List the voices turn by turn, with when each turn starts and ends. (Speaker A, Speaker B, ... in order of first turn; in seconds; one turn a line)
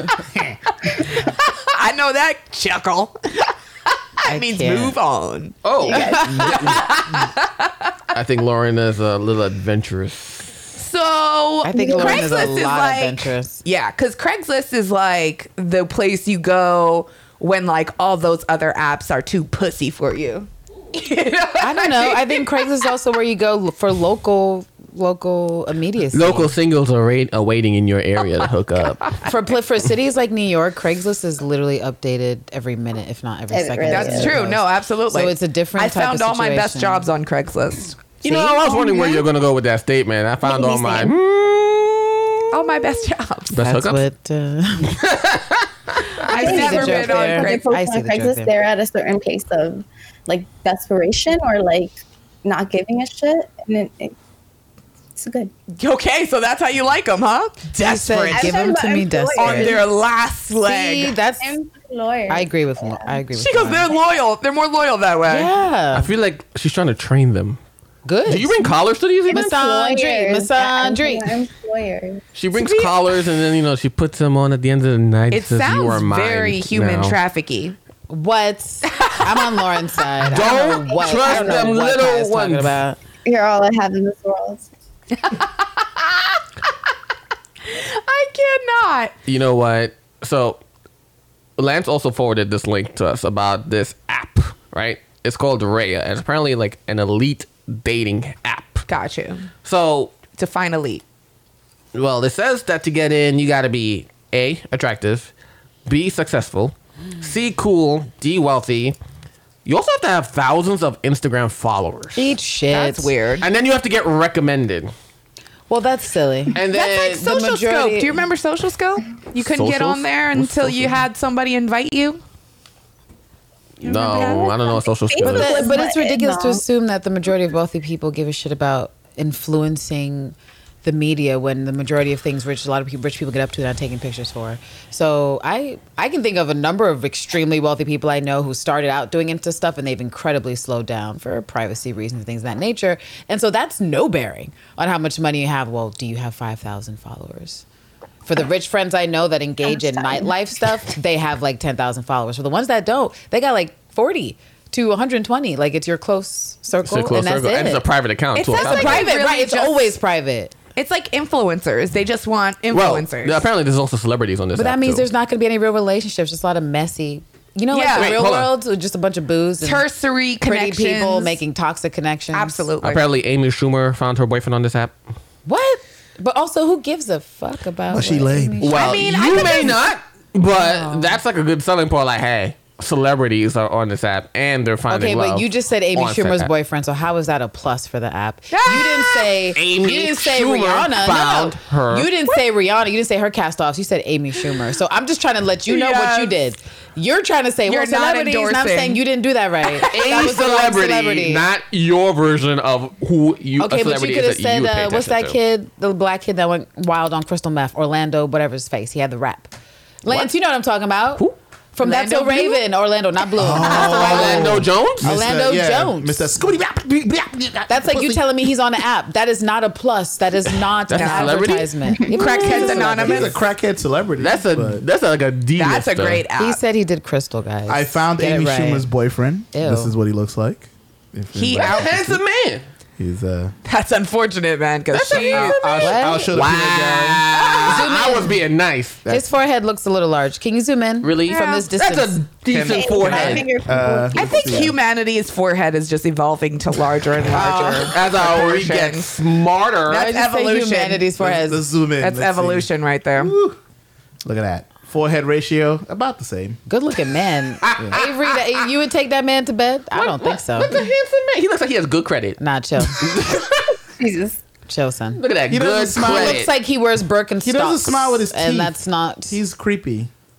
Speaker A: 0.9-3.5
Speaker A: 4.2-5.7
Speaker B: 4.2-5.0
Speaker C: 5.6-7.0
Speaker D: 5.8-6.8
Speaker B: 5.9-6.8
Speaker A: 6.3-7.7
Speaker C: 8.1-10.7
Speaker A: 10.8-22.6
Speaker B: 11.6-13.6
Speaker D: 11.7-12.5
Speaker B: 21.6-26.5
Speaker C: 26.1-29.2
Speaker B: 29.2-37.0
Speaker D: 33.5-34.4
Speaker A: 33.9-39.2
Speaker C: 38.2-42.4
Speaker B: 40.5-40.9
Speaker A: 42.5-43.6
Speaker C: 43.5-44.0
Speaker B: 43.6-45.0
Speaker C: 44.9-46.0
Speaker A: 46.2-47.6
Speaker D: 46.3-54.1
Speaker B: 46.3-48.5
Speaker D: 55.1-55.5
Speaker A: 55.8-58.7
Speaker B: 57.8-59.8
Speaker D: 58.3-59.8
Speaker A: 59.4-61.1
Speaker B: 60.6-61.5
Speaker D: 61.4-63.2
Speaker B: 62.3-63.9
Speaker A: 63.3-65.5
Speaker B: 65.2-66.1
Speaker C: 65.9-67.6
Speaker B: 68.0-68.7
Speaker C: 68.3-69.5
Speaker D: 69.3-72.2
Speaker B: 69.3-71.3
Speaker C: 72.3-77.2
Speaker A: 72.5-73.0
Speaker A: 75.3-77.8
Speaker B: 78.1-83.0
Speaker C: 80.2-82.8
Speaker D: 80.9-81.6
Speaker D: 83.2-84.7
Speaker A: 85.2-86.1
Speaker A: 87.6-89.1
Speaker C: 89.3-90.6
Speaker C: 91.6-98.8
Speaker A: 98.9-99.5
Speaker C: 99.6-100.1
Speaker A: 100.3-101.0
Speaker C: 101.9-105.3
Speaker C: 105.9-109.0
Speaker C: 109.6-112.3
Speaker B: 112.1-113.1
Speaker A: 112.7-113.5
Speaker C: 113.4-114.9
Speaker B: 115.7-118.2
Speaker C: 116.5-117.2
Speaker A: 116.6-122.2
Speaker C: 119.4-121.0
Speaker C: 123.8-125.8
Speaker D: 123.8-126.6
Speaker B: 125.2-147.6
Speaker B: 148.2-157.8
Speaker D: 149.9-150.1
Speaker C: 156.8-159.1
Speaker A: 158.3-159.9
Speaker B: 158.5-160.5
Speaker A: 160.7-163.4
Speaker C: 162.7-165.1
Speaker B: 164.5-169.8
Speaker A: 167.7-168.2
Speaker C: 167.9-168.5
Speaker A: 169.6-171.4
Speaker B: 170.4-172.6
Speaker A: 172.3-173.0
Speaker C: 172.8-174.9
Speaker B: 175.4-179.7
Speaker E: 177.9-178.7
Speaker C: 178.6-186.5
Speaker A: 178.7-179.8
Speaker B: 180.5-181.2
Speaker B: 184.9-201.4
Speaker A: 188.5-189.3
Speaker C: 189.5-192.1
Speaker A: 195.7-196.4
Speaker A: 197.7-199.0
Speaker A: 199.8-200.1
Speaker C: 199.9-205.3
Speaker B: 203.6-209.5
Speaker B: 210.0-216.4
Speaker A: 211.8-212.6
Speaker E: 213.4-218.2
Speaker C: 213.6-215.1
Speaker B: 217.7-223.4
Speaker C: 220.9-222.7
Speaker A: 220.9-221.4
Speaker A: 222.1-223.4
Speaker E: 222.4-224.8
Speaker C: 224.2-226.2
Speaker A: 225.6-226.6
Speaker B: 226.4-228.9
Speaker E: 227.7-232.2
Speaker B: 229.5-229.9
Speaker A: 231.3-231.9
Speaker C: 231.6-232.6
Speaker E: 233.0-233.5
Speaker A: 233.6-235.9
Speaker C: 234.9-239.0
Speaker E: 235.2-237.2
Speaker B: 235.8-236.4
Speaker A: 237.4-237.7
Speaker B: 237.6-238.4
Speaker B: 239.1-242.2
Speaker C: 241.0-243.5
Speaker A: 241.3-241.7
Speaker D: 242.6-244.6
Speaker E: 243.0-244.7
Speaker A: 244.1-249.2
Speaker B: 247.3-247.9
Speaker C: 247.7-250.1
Speaker A: 249.9-251.0
Speaker B: 249.9-251.6
Speaker E: 251.2-253.6
Speaker A: 252.0-253.3
Speaker E: 254.2-256.6
Speaker B: 256.7-260.8
Speaker C: 257.6-258.4
Speaker C: 259.9-262.4
Speaker B: 262.4-263.1
Speaker C: 262.9-263.8
Speaker D: 263.9-264.4
Speaker B: 264.7-265.2
Speaker C: 265.2-266.5
Speaker E: 265.5-266.4
Speaker B: 266.0-269.4
Speaker E: 267.4-268.7
Speaker E: 269.3-270.1